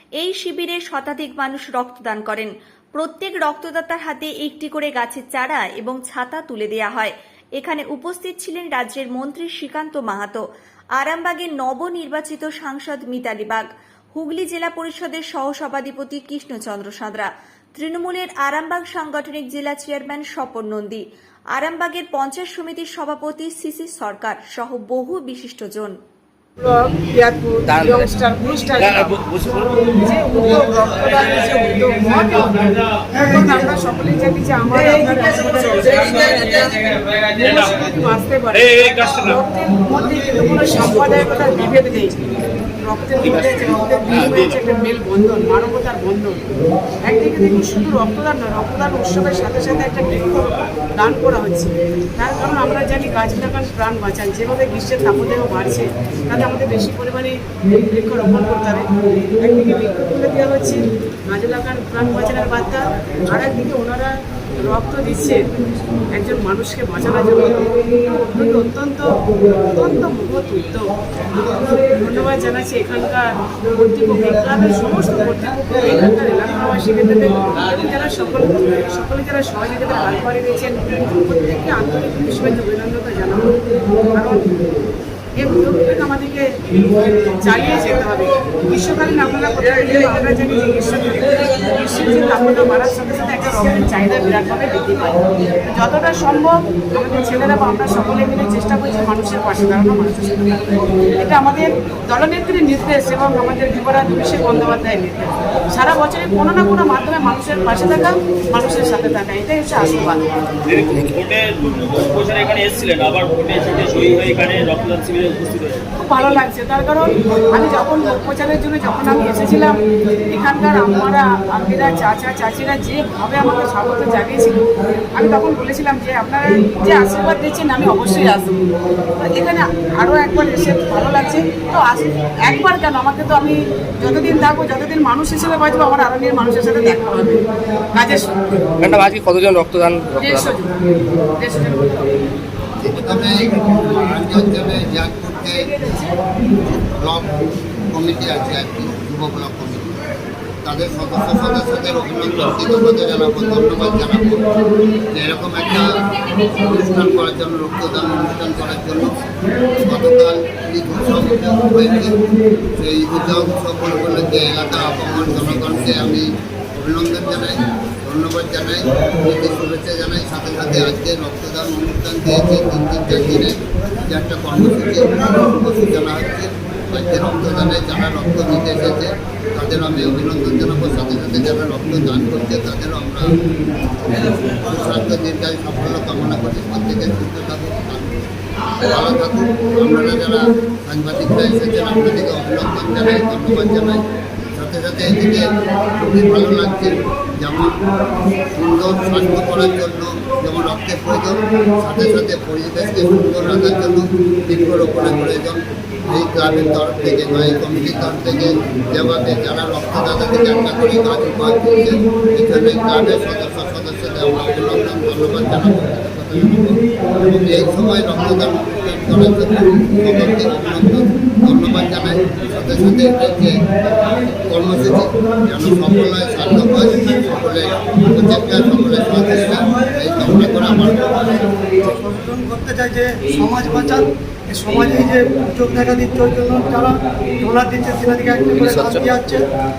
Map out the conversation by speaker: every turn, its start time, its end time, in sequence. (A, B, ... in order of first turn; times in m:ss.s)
0:00.2-0:10.4 A
0:11.0-0:25.9 A
0:26.6-0:42.3 B
0:27.7-0:28.1 C
0:28.8-0:29.7 C
0:33.1-0:33.6 D
0:38.8-0:39.3 E
0:42.8-0:46.4 B
0:43.2-0:44.5 C
0:47.0-1:05.4 B
1:06.1-1:23.6 B
1:24.1-1:24.6 B
1:25.4-1:50.2 B
1:50.7-1:55.9 E
1:56.0-2:18.6 B
2:18.8-2:20.6 C
2:20.1-2:22.2 B
2:22.9-2:25.8 F
2:25.5-2:26.2 B
2:26.6-2:30.0 F
2:30.6-3:03.4 F
3:04.1-3:08.3 F
3:08.8-3:17.8 F
3:18.6-3:51.3 F
3:51.1-3:59.5 D
3:58.5-3:59.0 C